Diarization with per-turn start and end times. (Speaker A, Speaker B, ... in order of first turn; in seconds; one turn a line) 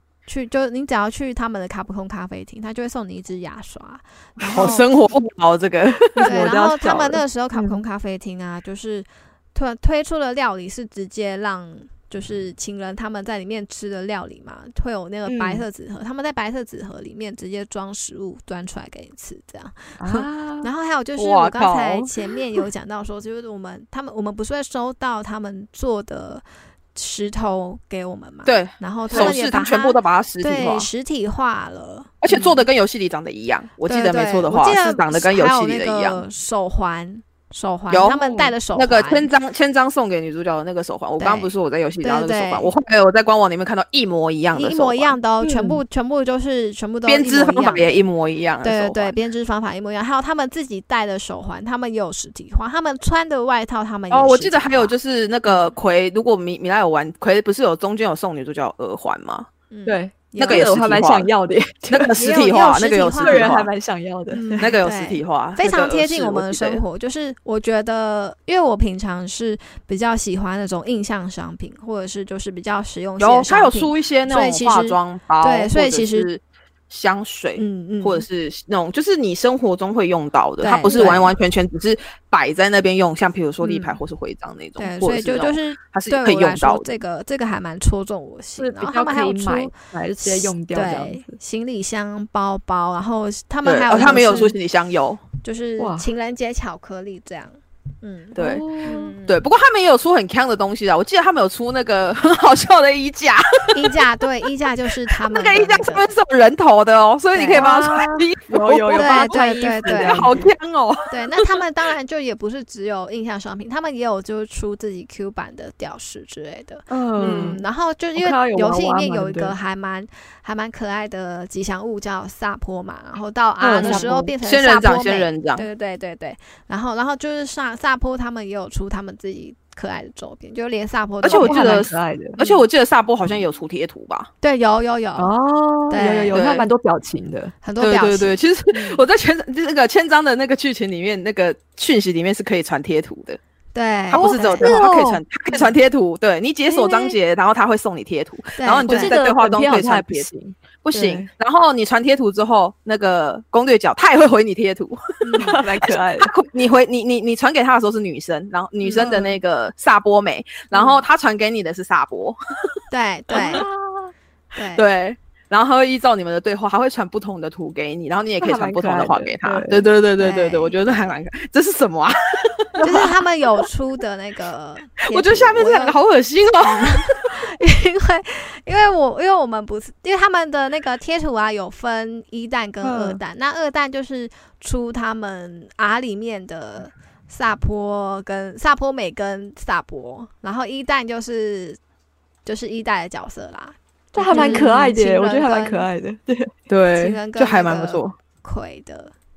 Speaker A: 0.3-4.9
Speaker B: 4.5-4.7
Speaker C: 4.5-6.4
Speaker A: 6.2-32.6
Speaker B: 6.2-7.8
Speaker B: 15.3-15.6
Speaker B: 20.0-20.7
Speaker C: 21.1-22.1
Speaker C: 28.5-30.9
Speaker B: 29.1-29.4
Speaker C: 32.2-36.2
Speaker A: 33.9-39.3
Speaker C: 37.9-45.1
Speaker A: 41.2-42.7
Speaker A: 44.5-48.0
Speaker B: 45.4-45.8
Speaker C: 47.1-49.1
Speaker A: 48.6-55.0
Speaker C: 54.1-59.5
Speaker A: 59.7-60.7
Speaker B: 59.9-62.2
Speaker C: 60.4-61.3
Speaker C: 61.9-63.7
Speaker A: 62.2-63.6
Speaker B: 63.2-64.7
Speaker A: 64.3-76.3
Speaker C: 64.6-66.8
Speaker C: 73.2-86.9
Speaker A: 77.6-78.2
Speaker A: 80.6-81.3
Speaker B: 80.9-81.3
Speaker A: 83.6-84.0
Speaker A: 84.8-94.6
Speaker B: 88.6-91.4
Speaker C: 93.6-95.2
Speaker A: 95.4-99.4
Speaker B: 95.8-96.1
Speaker C: 98.4-98.7
Speaker B: 98.4-99.1
Speaker C: 99.2-104.0
Speaker A: 103.7-106.1
Speaker C: 105.1-111.5
Speaker A: 107.3-108.2
Speaker B: 107.5-110.5
Speaker A: 108.9-110.3
Speaker A: 111.1-132.6
Speaker B: 116.9-117.6
Speaker C: 117.2-117.6
Speaker B: 118.1-119.5
Speaker B: 123.6-124.3
Speaker C: 123.7-125.7
Speaker C: 131.2-134.3
Speaker B: 131.3-132.4
Speaker A: 134.4-135.3
Speaker B: 135.2-137.5
Speaker A: 135.9-136.4
Speaker C: 136.3-136.7
Speaker A: 137.6-139.0
Speaker C: 137.8-143.4
Speaker A: 143.7-144.8
Speaker C: 144.1-150.3
Speaker B: 144.1-145.2
Speaker A: 146.8-147.1
Speaker A: 148.6-149.2
Speaker B: 148.9-151.3
Speaker C: 150.8-162.4
Speaker A: 155.2-155.6
Speaker B: 155.4-156.3
Speaker A: 158.8-159.3
Speaker B: 159.0-159.3
Speaker A: 162.9-163.7
Speaker C: 163.3-163.6
Speaker B: 163.3-164.1
Speaker A: 164.6-164.9
Speaker C: 164.8-173.1
Speaker B: 168.4-169.8
Speaker A: 170.2-171.1
Speaker A: 172.8-176.0
Speaker C: 175.1-177.4
Speaker A: 176.7-191.8
Speaker B: 182.8-183.2
Speaker A: 192.4-195.9
Speaker B: 194.1-196.5
Speaker C: 194.3-194.7
Speaker C: 196.7-198.1
Speaker A: 196.9-199.1